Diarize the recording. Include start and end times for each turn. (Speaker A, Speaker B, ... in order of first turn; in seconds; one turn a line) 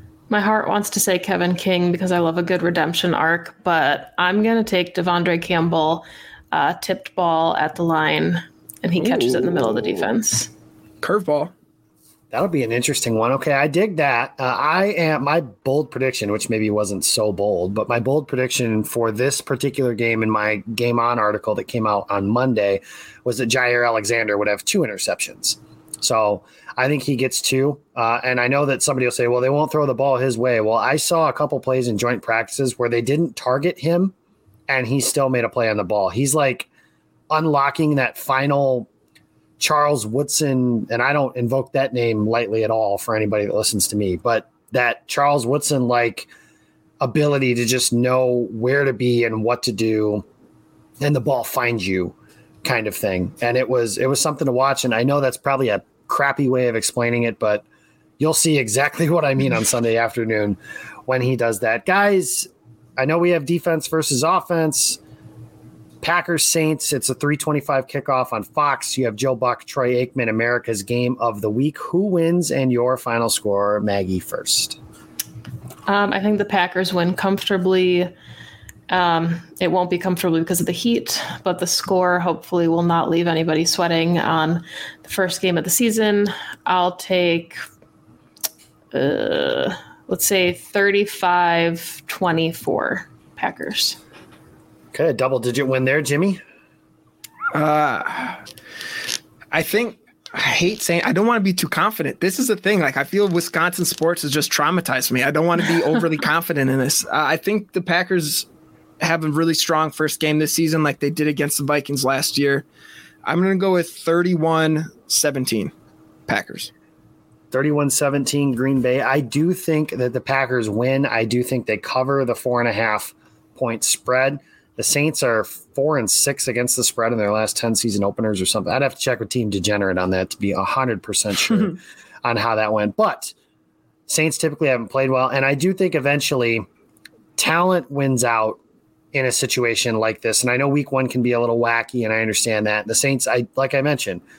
Speaker A: 0.3-10.5
Speaker B: 9.0-10.1
Speaker B: 11.0-11.5
Speaker C: 12.3-34.1
Speaker C: 34.7-36.7
Speaker C: 37.3-38.9
Speaker C: 39.6-46.3
Speaker C: 47.0-50.2
Speaker C: 51.0-57.6
Speaker C: 58.2-65.0
Speaker C: 66.0-74.8
Speaker A: 75.9-78.1
Speaker A: 78.9-87.6
Speaker A: 88.9-94.0
Speaker C: 94.9-96.4
Speaker B: 97.5-98.4
Speaker B: 99.5-108.5
Speaker B: 109.0-112.7
Speaker B: 113.2-115.7
Speaker B: 116.3-116.7
Speaker C: 117.5-133.3
Speaker C: 134.1-136.7
Speaker C: 137.4-138.6
Speaker C: 139.1-144.2